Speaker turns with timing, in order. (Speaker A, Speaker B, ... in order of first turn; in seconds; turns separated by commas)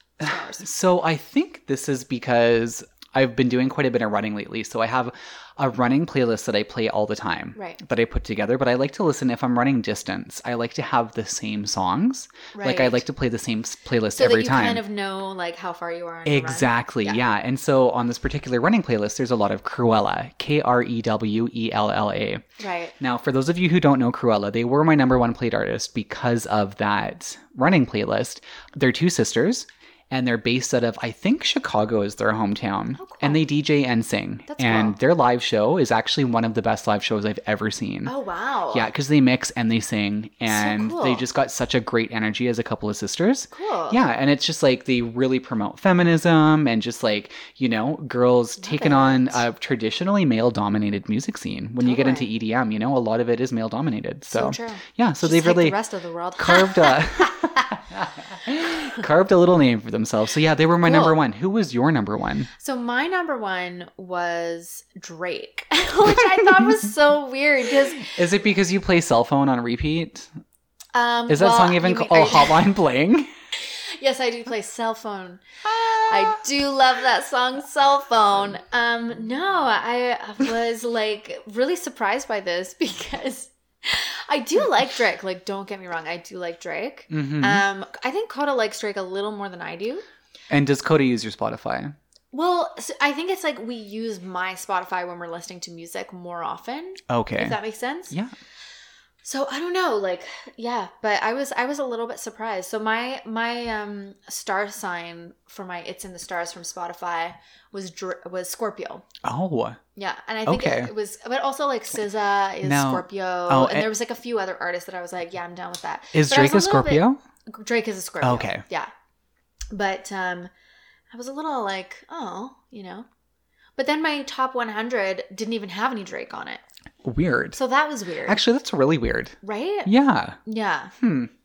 Speaker A: 0.2-0.7, Speaker B: 0.2-14.8, Speaker A: 7.5-7.8, Speaker A: 12.5-13.0, Speaker A: 14.2-17.2, Speaker B: 16.3-22.4, Speaker A: 22.6-22.9, Speaker B: 23.0-38.1, Speaker A: 33.0-33.4, Speaker A: 34.5-35.0, Speaker A: 38.1-38.9, Speaker B: 38.7-55.8, Speaker A: 40.5-41.2, Speaker A: 43.5-44.0, Speaker A: 48.6-49.5, Speaker A: 51.8-52.3, Speaker A: 54.3-57.6, Speaker B: 56.4-62.5, Speaker A: 60.8-61.2, Speaker A: 62.6-68.2, Speaker B: 68.0-70.3, Speaker A: 70.9-72.6, Speaker B: 71.3-73.3, Speaker A: 73.7-90.0, Speaker B: 75.7-76.4, Speaker B: 87.1-87.6, Speaker B: 90.5-92.0, Speaker A: 92.3-98.2, Speaker B: 97.1-97.6, Speaker A: 99.2-109.1, Speaker B: 109.2-109.8, Speaker A: 110.0-118.9, Speaker B: 110.5-110.9, Speaker B: 112.6-113.9, Speaker B: 116.1-117.2, Speaker B: 118.2-118.6, Speaker A: 119.7-120.5, Speaker A: 121.1-123.1, Speaker A: 123.8-126.6, Speaker B: 127.0-127.6, Speaker A: 127.5-128.4, Speaker B: 128.3-130.4, Speaker A: 129.4-129.9, Speaker A: 130.4-130.9, Speaker B: 131.0-131.3